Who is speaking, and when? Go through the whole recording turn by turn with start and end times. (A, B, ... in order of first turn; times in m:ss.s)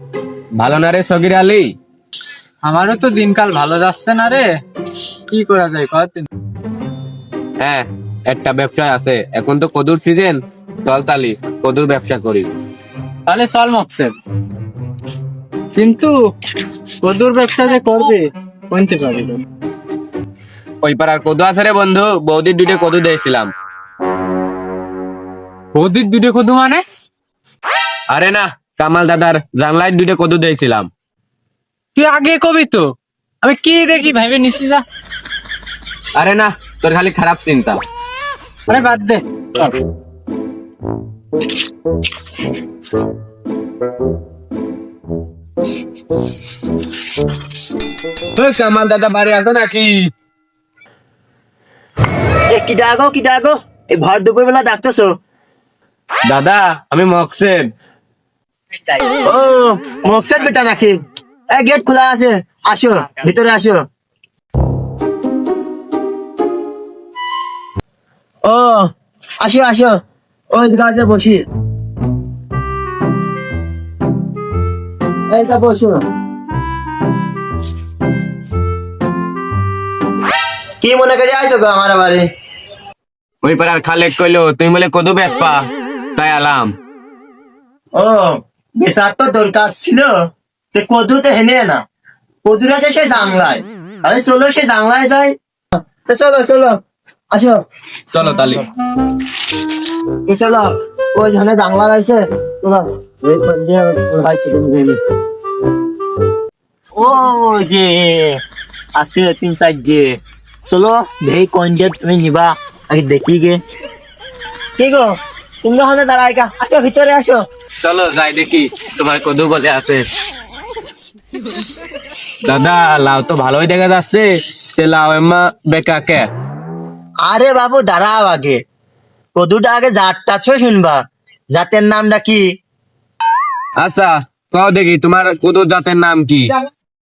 0:00.6-0:01.7 A
0:02.6-0:04.5 B
0:05.3-0:06.3 B
0:07.6-0:12.5 A
0:13.3-0:14.1 B
0:15.7-0:16.2 B
0:17.0-0:19.4 B
0:20.8-0:23.5 A
0:25.7-0:26.8 B
0:28.1-0:30.9 A
0:32.0-0:34.8 B
0:36.2-0:37.8 A
0:38.7-0:39.7 B
0:48.3-0:50.1 A
0:52.5-0:55.2 C
0:56.3-0:57.6 A
0:59.2-1:01.0 C
1:01.5-1:03.8 C
1:08.4-1:08.9 C
1:09.4-1:10.0 C
1:10.5-1:11.4 C
1:15.3-1:16.0 C
1:20.8-1:22.2 C
1:23.4-1:25.6 A
1:26.2-1:26.7 A
1:28.0-1:30.1 C
1:30.7-1:31.8 C
1:32.4-1:36.8 C
1:37.3-1:37.6 C
1:38.1-1:38.6 A
1:40.3-1:45.0 C
1:47.0-1:48.4 C
1:49.0-1:53.6 C
1:54.8-1:57.4 C
1:57.8-2:00.1 A
2:02.4-2:06.3 A
2:07.2-2:08.6 C
2:09.4-2:11.0 C
2:11.5-2:12.4 C
2:13.8-2:16.5 A